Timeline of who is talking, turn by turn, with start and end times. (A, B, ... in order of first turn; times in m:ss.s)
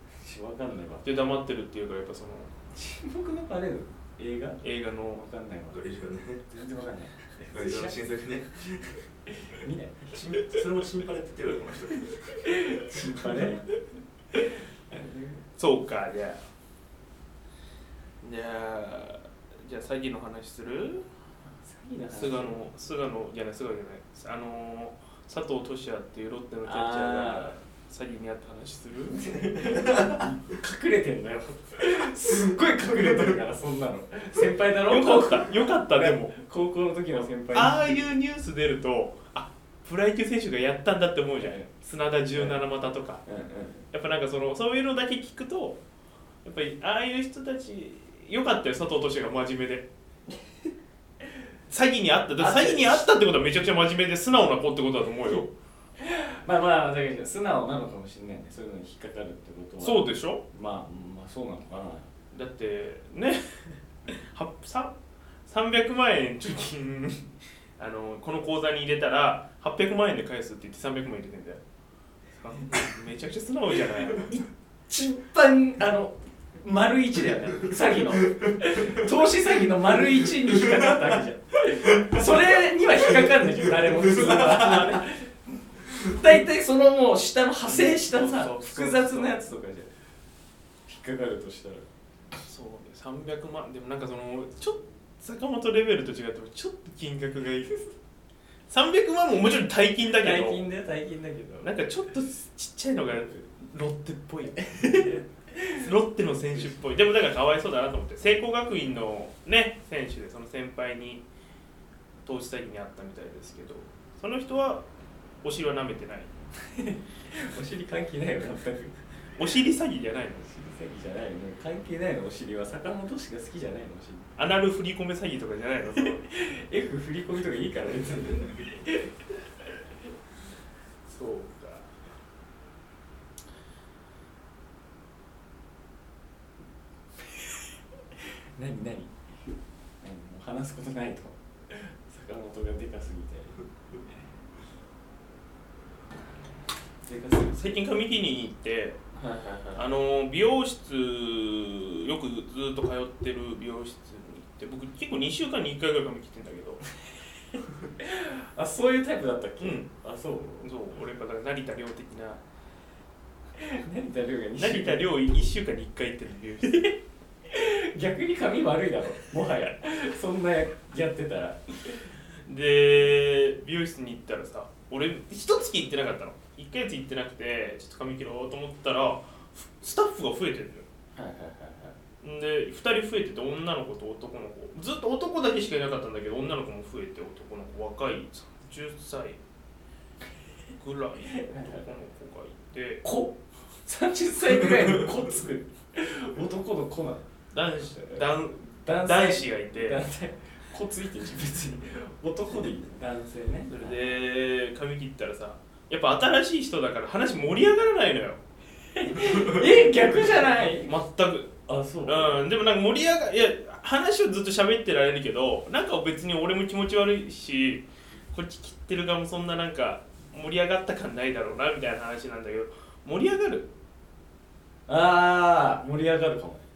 0:00.2-0:01.0 A
0:01.0-0:02.5 B
0:02.7-0:04.6 A
0:04.6-0:05.2 B
0:05.1-0:05.8 A
0:05.7-0:06.4 C
0:06.5-0:08.0 A
0:07.5-0:09.0 C
0:09.3-0:10.4 A
0:10.1-0:12.5 C
0:12.5-0:13.6 A
0:14.9-0:15.4 A
0:15.6-0:16.4 B
0:18.2-0:21.0 B
0:21.6-0:22.6 A
0:22.1-0:29.2 B
0:26.6-0:27.6 A
0:29.2-0:38.0 A
0:29.5-0:30.2 C
0:34.9-0:36.3 B
0:37.1-0:43.2 B
0:41.4-0:41.7 A
0:42.3-0:42.6 A
0:43.2-0:43.8 A
0:43.9-0:45.8 B
0:46.4-0:49.9 B
0:51.7-0:55.5 B
0:52.4-0:53.0 A
0:56.0-1:02.1 A
0:59.8-1:00.4 B
1:02.3-1:04.9 B
1:05.5-1:11.6 B
1:12.4-1:14.3 B
1:14.9-1:25.3 A
1:18.2-1:18.5 C
1:20.4-1:21.1 C
1:21.9-1:22.2 C
1:23.3-1:25.0 C
1:25.9-1:29.9 A
1:27.6-1:29.3 B
1:30.9-1:31.9 A
1:32.4-1:37.7 B
1:38.7-1:40.6 B
1:40.2-1:41.7 A
1:41.6-1:51.2 B
1:44.6-1:45.8 A
1:52.2-1:54.8 B
1:55.4-1:56.3 B
1:56.7-1:58.9 A
1:59.4-2:00.4 B
2:00.4-2:04.3 A
2:04.4-2:06.2 B
2:06.0-2:09.1 A
2:11.1-2:11.9 B
2:18.6-2:19.1 A
2:20.0-2:23.5 A
2:27.1-2:27.8 A
2:27.5-2:29.0 B
2:29.2-2:29.8 A
2:29.7-2:36.8 B
2:38.0-2:40.7 A
2:39.6-2:39.9 B
2:40.6-2:42.4 B
2:43.6-2:45.0 A
2:44.6-2:46.9 B
2:46.7-2:46.9 A
2:47.5-2:52.0 A
2:52.4-3:00.8 B
3:01.2-3:02.0 A
3:02.2-3:09.4 B
3:10.8-3:13.0 B
3:11.3-3:11.9 A
3:13.0-3:17.2 A
3:17.5-3:20.0 B
3:17.9-3:24.1 A
3:23.7-3:28.4 B
3:28.9-3:30.9 A
3:29.2-3:29.7 C
3:30.2-3:31.5 B
3:31.7-3:32.4 A
3:32.0-3:43.7 B
3:44.9-3:46.6 A